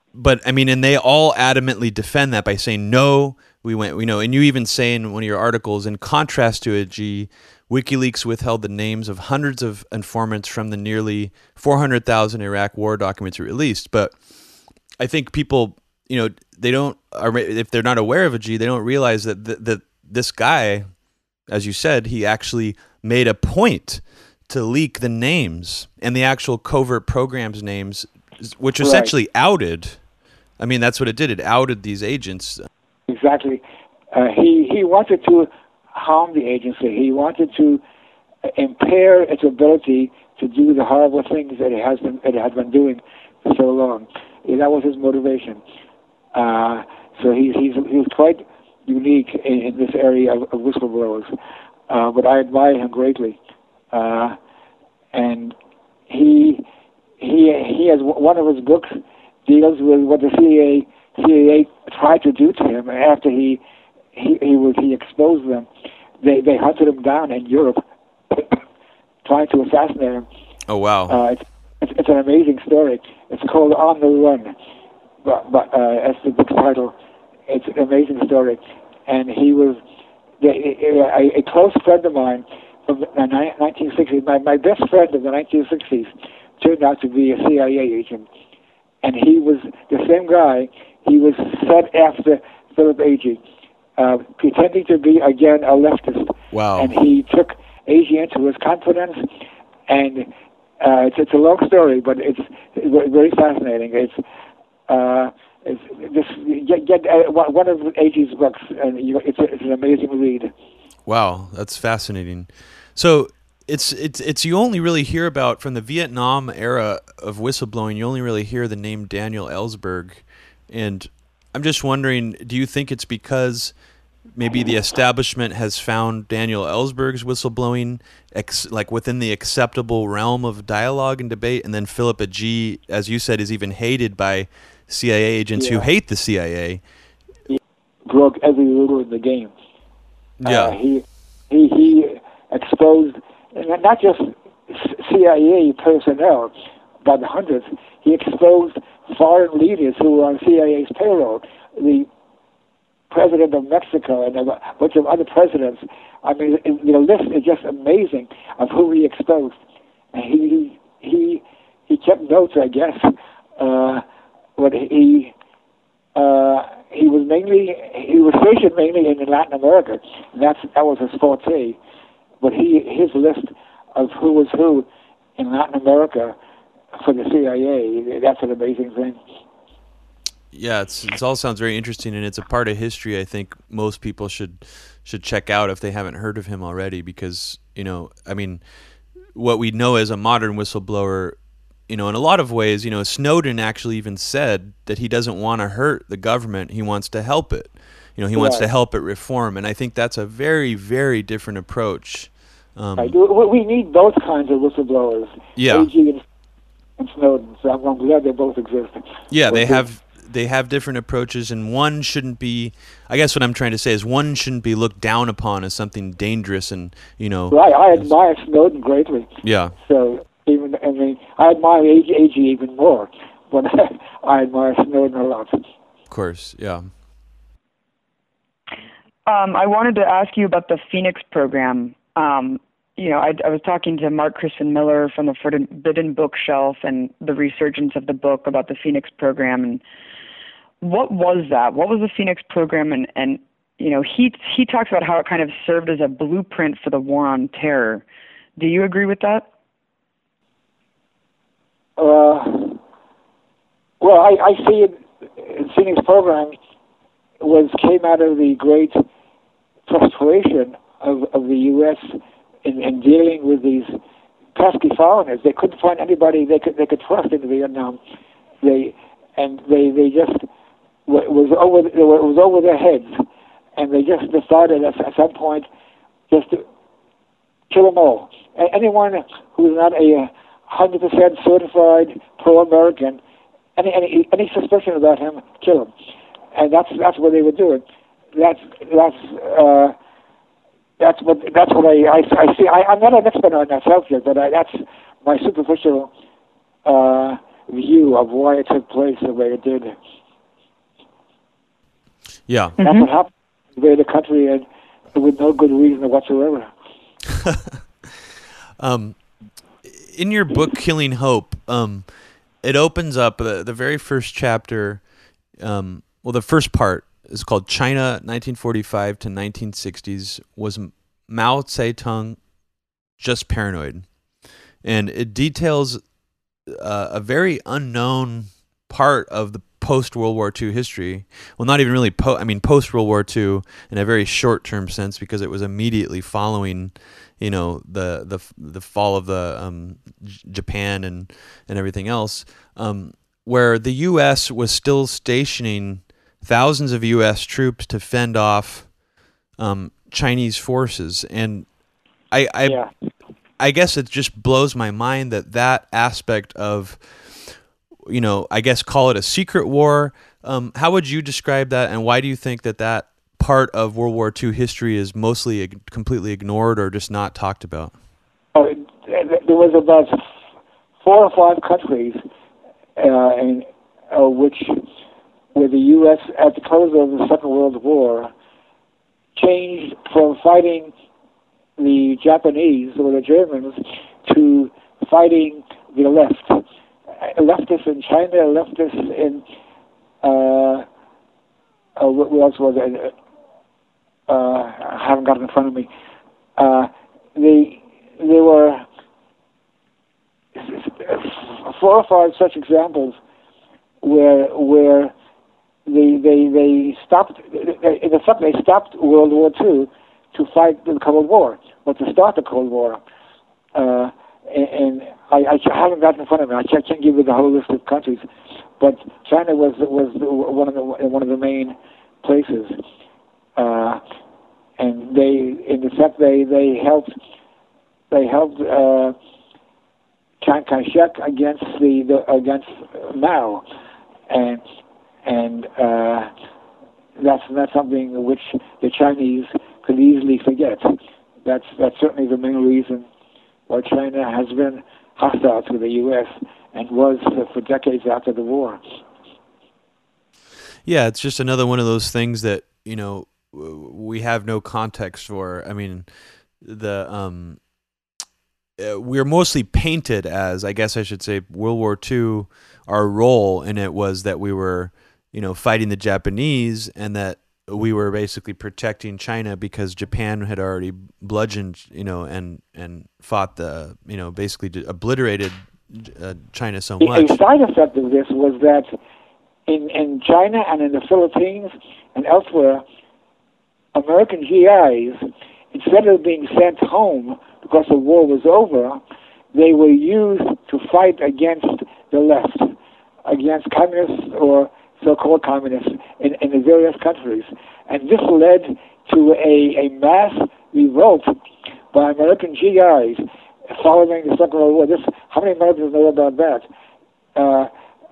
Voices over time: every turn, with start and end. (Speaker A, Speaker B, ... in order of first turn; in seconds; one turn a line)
Speaker A: 0.1-14.2
Speaker A: 15.0-20.9
Speaker A: 21.5-30.0
Speaker B: 28.8-29.1
Speaker A: 30.6-32.7
Speaker B: 33.1-37.8
Speaker B: 38.5-45.6
Speaker B: 46.3-51.3
Speaker B: 51.9-53.4
Speaker B: 53.9-54.4
Speaker B: 55.1-55.5
Speaker B: 56.1-56.6
Speaker B: 57.2-63.6
Speaker B: 64.1-65.7
Speaker B: 66.2-68.6
Speaker B: 69.2-70.2
Speaker A: 70.7-71.2
Speaker B: 71.1-74.5
Speaker B: 75.2-76.9
Speaker B: 77.5-79.8
Speaker B: 80.4-88.3
Speaker B: 89.0-93.4
Speaker B: 94.0-99.3
Speaker A: 96.5-96.9
Speaker B: 99.9-104.2
Speaker B: 104.9-110.5
Speaker A: 111.0-123.7
Speaker A: 124.3-136.8
Speaker B: 135.6-135.9
Speaker B: 137.5-139.5
Speaker A: 140.4-140.8
Speaker B: 140.4-146.5
Speaker B: 147.0-152.1
Speaker B: 153.1-159.6
Speaker B: 160.1-164.0
Speaker B: 164.6-165.3
Speaker B: 166.1-171.8
Speaker B: 172.4-176.3
Speaker B: 176.9-179.2
Speaker A: 180.5-188.6
Speaker A: 189.3-191.4
Speaker A: 191.9-203.2
Speaker B: 198.3-198.7
Speaker B: 203.0-206.2
Speaker A: 205.6-205.9
Speaker B: 207.0-209.8
Speaker A: 209.3-218.1
Speaker B: 217.5-225.6
Speaker A: 219.4-219.7
Speaker A: 226.1-226.9
Speaker C: 229.3-239.8
Speaker C: 240.8-248.0
Speaker C: 248.6-249.4
Speaker B: 252.0-252.8
Speaker B: 254.0-256.6
Speaker B: 257.4-259.0
Speaker B: 259.9-263.9
Speaker B: 264.5-268.0
Speaker B: 268.6-270.5
Speaker B: 271.1-273.2
Speaker B: 273.8-275.7
Speaker B: 276.3-276.6
Speaker B: 277.7-283.2
Speaker B: 283.8-285.9
Speaker B: 286.5-287.8
Speaker B: 288.3-289.9
Speaker B: 291.0-296.1
Speaker B: 296.8-299.9
Speaker A: 302.5-302.8
Speaker B: 302.8-306.7
Speaker C: 302.8-303.1
Speaker A: 307.3-307.8
Speaker A: 308.8-309.2
Speaker A: 309.8-315.1
Speaker A: 315.6-322.4
Speaker A: 323.2-324.1
Speaker A: 324.8-326.0
Speaker A: 326.7-348.9
Speaker A: 349.6-351.7
Speaker A: 352.3-352.8
Speaker B: 352.6-352.9
Speaker A: 353.6-367.9
Speaker B: 368.5-370.2
Speaker B: 371.0-372.2
Speaker B: 373.0-374.8
Speaker B: 375.5-378.3
Speaker B: 379.3-380.9
Speaker B: 381.8-386.6
Speaker B: 387.1-389.4
Speaker B: 390.2-390.9
Speaker B: 391.9-393.1
Speaker B: 394.3-395.9
Speaker B: 396.6-398.9
Speaker B: 400.5-403.2
Speaker B: 404.0-405.1
Speaker B: 405.9-413.0
Speaker B: 413.7-418.2
Speaker B: 418.8-422.8
Speaker B: 423.6-424.0
Speaker B: 424.8-427.1
Speaker B: 428.1-429.1
Speaker B: 430.4-433.6
Speaker B: 434.3-434.6
Speaker B: 435.2-436.3
Speaker B: 437.2-443.1
Speaker B: 443.7-448.8
Speaker A: 450.8-457.6
Speaker A: 458.8-477.4
Speaker B: 477.0-478.9
Speaker B: 479.7-482.8
Speaker B: 483.9-489.0
Speaker B: 489.5-501.3
Speaker B: 501.9-506.7
Speaker B: 507.3-507.7